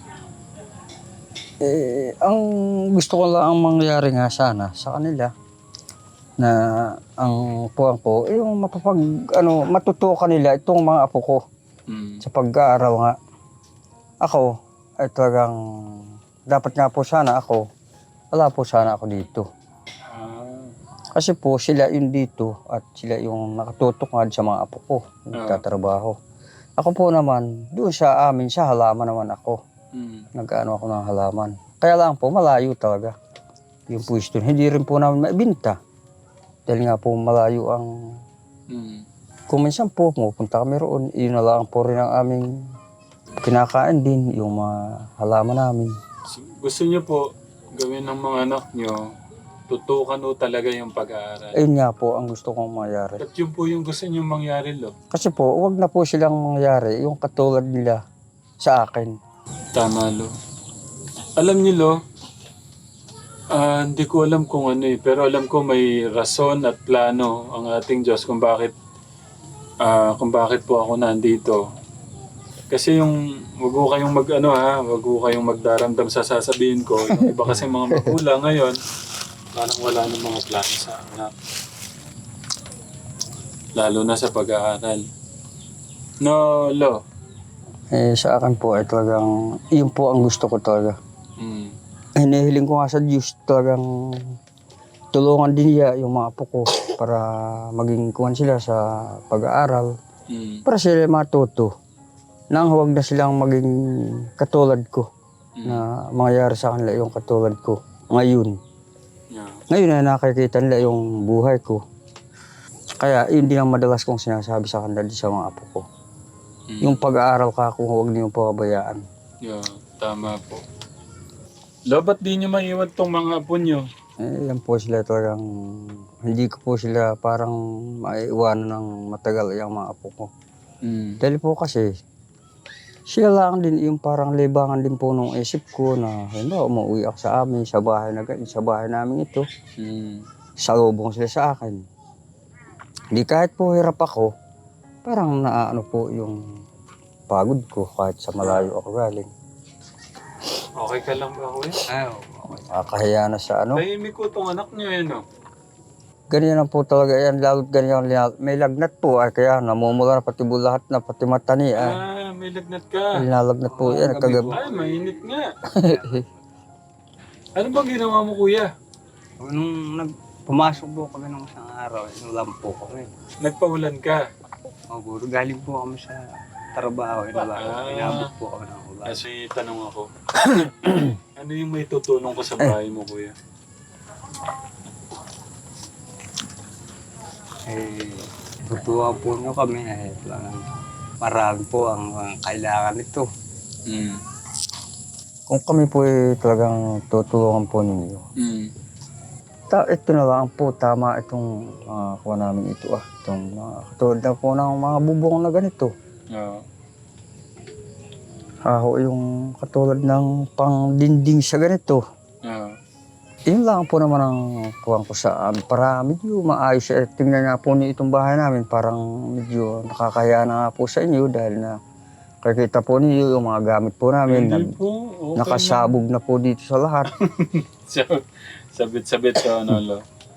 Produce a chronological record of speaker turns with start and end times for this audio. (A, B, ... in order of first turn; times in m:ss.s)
0:01.6-0:05.3 A
0:07.2-0:11.4 A
0:11.9-0:12.2 B
0:12.2-0:13.2 A
0:14.2-0:14.5 A
0:15.0-0:17.6 A
0:18.3-0:19.5 A
0:20.1-0:20.7 B
0:21.2-0:26.2 A
0:25.4-0:25.6 B
0:26.8-0:29.6 A
0:30.0-0:30.3 B
0:30.4-0:33.2 A
0:33.9-0:35.8 A
0:36.7-0:37.9 A
0:38.7-0:39.0 B
0:39.5-0:42.5 A
0:43.4-0:45.9 A
0:46.3-0:47.2 B
0:47.8-0:49.0 B
0:49.7-0:51.6 B
0:51.6-0:53.2 A
0:53.2-0:54.9 B
0:55.1-0:58.0 A
0:58.6-0:59.2 A
0:59.8-1:00.3 B
1:01.4-1:02.0 B
1:03.5-1:08.7 B
1:09.8-1:11.6 B
1:12.7-1:18.8 B
1:17.1-1:18.2 A
1:19.6-1:21.3 B
1:23.8-1:25.0 B
1:26.2-1:27.0 B
1:27.9-1:31.0 A
1:31.4-1:31.7 B
1:32.2-1:34.3 A
1:35.1-1:39.9 A
1:40.3-1:40.6 B
1:40.7-1:41.7 A
1:42.5-1:45.1 A
1:45.7-1:48.6 A
1:49.3-1:49.6 B
1:49.7-1:51.8 A
1:53.0-1:55.8 A
1:56.7-1:57.0 B
1:56.8-1:59.0 A
1:59.4-2:00.6 B
2:01.9-2:03.9 B
2:04.2-2:10.3 A
2:10.8-2:11.2 B
2:11.2-2:11.9 A
2:13.1-2:19.5 A
2:19.8-2:20.2 B
2:20.6-2:21.8 A
2:23.1-2:24.3 A
2:25.0-2:26.4 A
2:27.3-2:29.3 A
2:30.8-2:31.8 B
2:31.9-2:32.7 C
2:32.7-2:33.8 A
2:33.8-2:35.2 B
2:36.3-2:42.0 A
2:41.8-2:43.2 B
2:43.2-2:44.6 A
2:43.7-2:46.4 C
2:44.5-2:45.4 B
2:45.7-2:46.2 A
2:47.6-2:48.7 B
2:49.4-2:53.1 C
2:53.4-2:54.2 B
2:54.9-2:56.2 C
2:56.8-2:59.1 C
2:57.5-2:58.3 B
2:59.1-3:00.1 B
3:01.4-3:03.3 B
3:07.7-3:10.6 C
3:11.2-3:13.2 C
3:13.9-3:14.2 B
3:15.5-3:18.2 A
3:18.4-3:18.7 B
3:19.7-3:25.9 A
3:26.3-3:26.6 B
3:28.7-3:32.0 A
3:32.5-3:32.8 B
3:33.5-3:41.8 A
3:42.4-3:44.8 A
3:44.3-3:46.0 B
3:45.4-3:47.1 A
3:47.2-3:48.2 B
3:48.8-3:50.0 B